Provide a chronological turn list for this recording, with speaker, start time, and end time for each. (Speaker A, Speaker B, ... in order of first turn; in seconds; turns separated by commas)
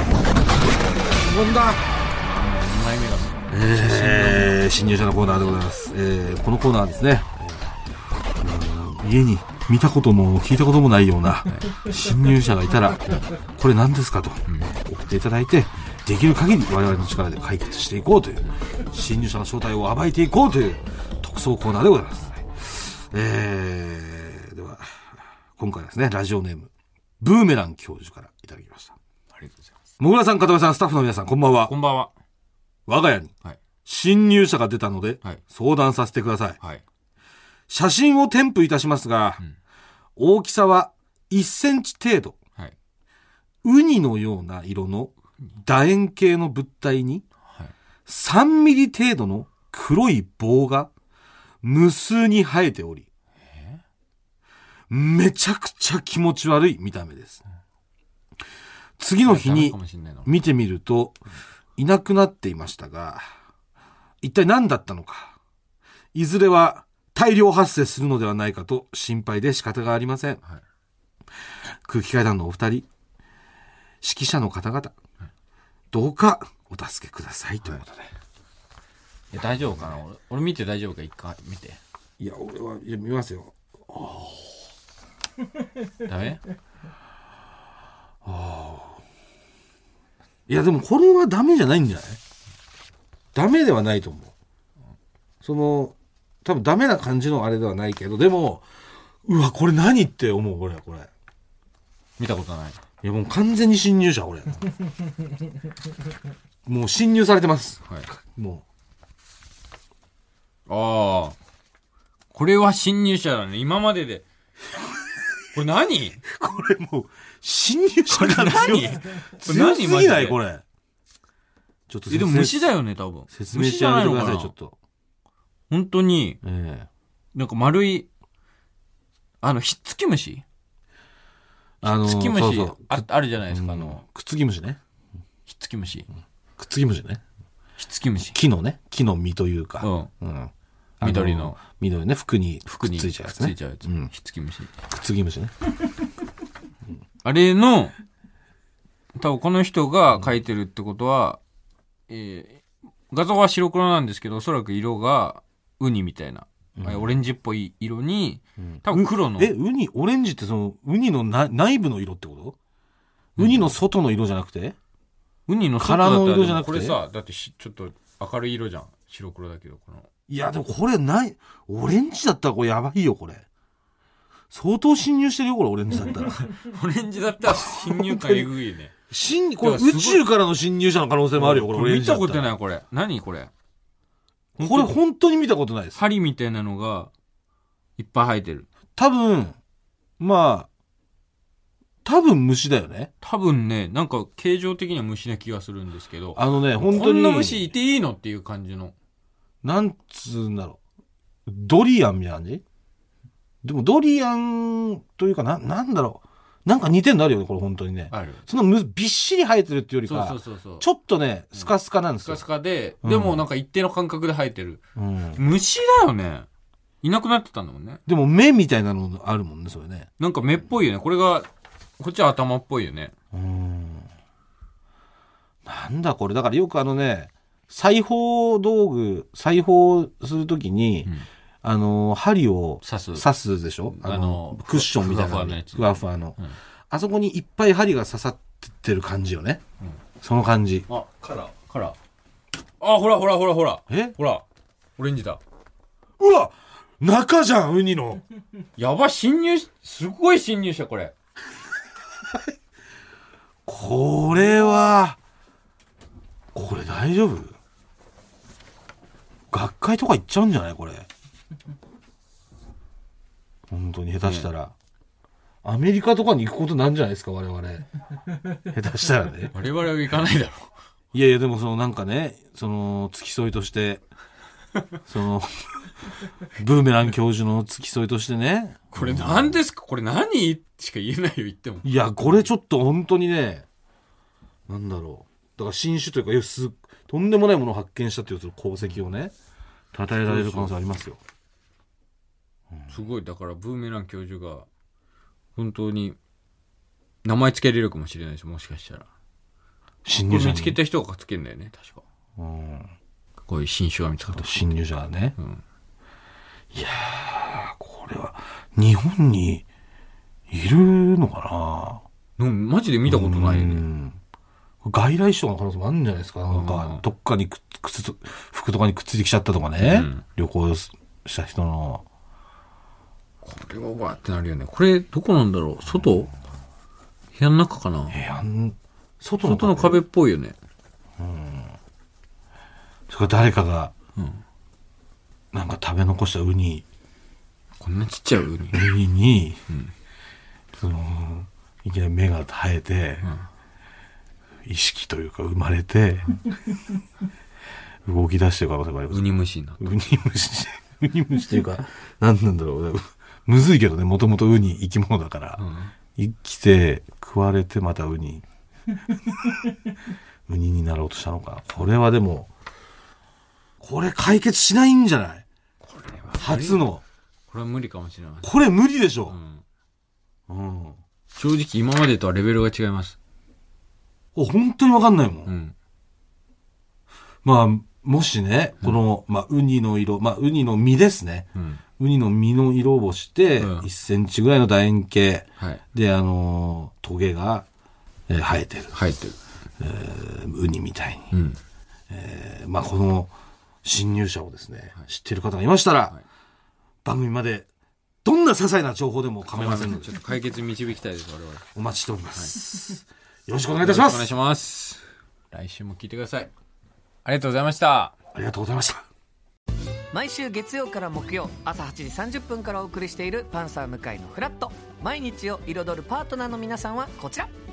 Speaker A: 1.1-1.9, Speaker B: 2.2-4.7, Speaker A: 3.5-7.7, Speaker A: 8.4-13.1, Speaker B: 11.5-11.8, Speaker A: 13.6-26.7, Speaker B: 14.5-14.8, Speaker A: 27.2-28.9, Speaker B: 29.4-29.7, Speaker A: 30.0-31.7, Speaker B: 31.7-32.1, Speaker A: 32.9-33.3, Speaker A: 33.9-36.6, Speaker A: 37.7-39.4, Speaker A: 40.2-42.4, Speaker A: 43.6-47.2, Speaker A: 48.1-50.9, Speaker A: 51.6-53.1, Speaker B: 53.5-53.8, Speaker A: 54.9-57.4, Speaker A: 59.0-61.2, Speaker B: 59.2-60.3, Speaker A: 61.8-63.2, Speaker A: 64.2-65.4, Speaker A: 66.1-70.4, Speaker A: 71.8-72.9, Speaker A: 74.0-74.9, Speaker A: 75.9-78.1, Speaker B: 79.3-81.8, Speaker A: 82.2-84.6, Speaker B: 86.0-86.4, Speaker A: 88.2-89.0, Speaker A: 90.5-92.2, Speaker A: 93.3-94.3, Speaker A: 95.4-98.7, Speaker A: 99.2-101.1, Speaker B: 102.2-102.8, Speaker A: 103.0-104.7, Speaker A: 106.7-108.6, Speaker B: 110.7-111.4, Speaker B: 112.3-114.2, Speaker B: 115.5-116.2, Speaker A: 116.3-120.6, Speaker B: 118.1-120.4, Speaker A: 121.9-122.7, Speaker B: 122.1-124.5, Speaker A: 123.3-124.8, Speaker B: 125.7-126.4, Speaker A: 126.4-126.9, Speaker B: 127.3-128.1, Speaker B: 129.4-130.4, Speaker A: 131.8-134.8, Speaker B: 131.8-134.0, Speaker B: 135.5-136.1, Speaker A: 136.6-137.2, Speaker B: 137.8-138.4, Speaker A: 138.3-144.1, Speaker B: 139.8-140.1, Speaker B: 141.0-141.6, Speaker B: 142.7-144.7, Speaker A: 144.9-145.5, Speaker B: 147.2-147.9, Speaker B: 149.2-151.4, Speaker B: 152.1-159.5, Speaker A: 156.8-157.2, Speaker A: 158.6-162.6, Speaker B: 163.4-163.7, Speaker A: 163.4-164.8, Speaker B: 165.5-170.1, Speaker A: 165.8-167.0, Speaker A: 170.3-173.4, Speaker A: 174.5-176.4, Speaker B: 176.4-178.9, Speaker A: 177.5-178.5, Speaker A: 179.1-182.5, Speaker B: 179.6-180.2, Speaker B: 181.4-183.5, Speaker B: 184.6-184.9, Speaker A: 184.6-186.0, Speaker B: 185.9-187.1, Speaker B: 188.0-188.7, Speaker A: 189.0-189.6, Speaker A: 190.2-190.7, Speaker A: 192.1-193.1, Speaker B: 193.2-198.9, Speaker A: 196.3-197.7, Speaker A: 199.6-200.8, Speaker A: 201.5-202.6, Speaker A: 203.6-212.4, Speaker B: 208.1-208.4, Speaker B: 210.1-210.9, Speaker B: 212.2-214.8, Speaker A: 213.0-213.4, Speaker A: 215.0-215.4, Speaker B: 215.4-216.5, Speaker B: 217.0-218.0, Speaker A: 218.1-220.1, Speaker B: 220.2-221.5, Speaker B: 222.0-223.1, Speaker A: 223.3-224.1, Speaker A: 225.7-231.1, Speaker A: 231.6-236.4, Speaker B: 232.8-233.2, Speaker B: 234.0-236.6, Speaker A: 236.9-239.6, Speaker A: 240.2-240.9, Speaker B: 240.9-242.0, Speaker B: 242.8-244.4, Speaker A: 243.9-244.2, Speaker B: 245.0-245.4, Speaker A: 246.2-248.2, Speaker B: 248.8-251.1, Speaker A: 253.7-255.2, Speaker A: 256.5-257.5, Speaker A: 259.5-261.1, Speaker A: 263.7-264.7, Speaker B: 264.2-264.5, Speaker A: 265.6-267.9, Speaker A: 268.7-269.5, Speaker B: 269.5-270.7, Speaker A: 271.1-274.0, Speaker A: 275.1-275.8, Speaker A: 276.6-279.6, Speaker B: 278.9-282.5, Speaker A: 281.8-283.7, Speaker A: 284.7-289.3, Speaker A: 289.9-291.2, Speaker B: 290.2-290.8, Speaker B: 292.9-294.7, Speaker B: 295.6-296.2, Speaker B: 297.2-299.1, Speaker A: 300.1-300.8, Speaker B: 300.3-302.0, Speaker A: 302.4-302.9, Speaker B: 303.5-304.6, Speaker A: 304.3-305.4, Speaker A: 306.7-309.6, Speaker A: 310.5-312.0, Speaker B: 312.4-313.9, Speaker A: 313.1-314.2, Speaker A: 314.8-322.0, Speaker B: 316.5-317.0, Speaker B: 319.8-320.2, Speaker B: 323.4-326.3, Speaker B: 327.4-328.2, Speaker A: 328.1-330.0, Speaker B: 329.4-330.6, Speaker A: 331.2-331.8, Speaker A: 333.1-333.9, Speaker B: 334.2-334.4, Speaker A: 335.5-336.9, Speaker B: 337.8-338.9, Speaker A: 338.7-339.6, Speaker A: 340.7-343.3, Speaker B: 343.2-343.5, Speaker A: 344.7-346.4, Speaker A: 348.1-349.3, Speaker B: 349.1-349.9, Speaker A: 349.8-355.6, Speaker B: 355.6-355.9, Speaker A: 356.2-358.4, Speaker A: 360.5-362.5, Speaker A: 363.8-365.4, Speaker B: 365.9-366.9, Speaker A: 366.4-367.0, Speaker B: 367.5-368.5, Speaker A: 368.4-369.4, Speaker B: 369.3-369.6, Speaker A: 370.5-371.0, Speaker B: 371.4-373.2, Speaker A: 374.4-375.5, Speaker B: 375.5-375.7, Speaker A: 377.4-381.5, Speaker B: 381.6-381.8, Speaker A: 382.0-387.7, Speaker B: 383.6-383.9, Speaker A: 388.3-389.0, Speaker B: 388.9-389.4, Speaker A: 389.8-391.3, Speaker B: 391.3-391.6, Speaker A: 392.1-393.3, Speaker A: 393.8-396.2, Speaker A: 397.1-397.7, Speaker A: 398.2-400.1, Speaker B: 399.5-401.6, Speaker A: 401.8-404.3, Speaker B: 403.8-406.5, Speaker B: 407.2-408.1, Speaker A: 408.3-409.1, Speaker C: 410.1-417.5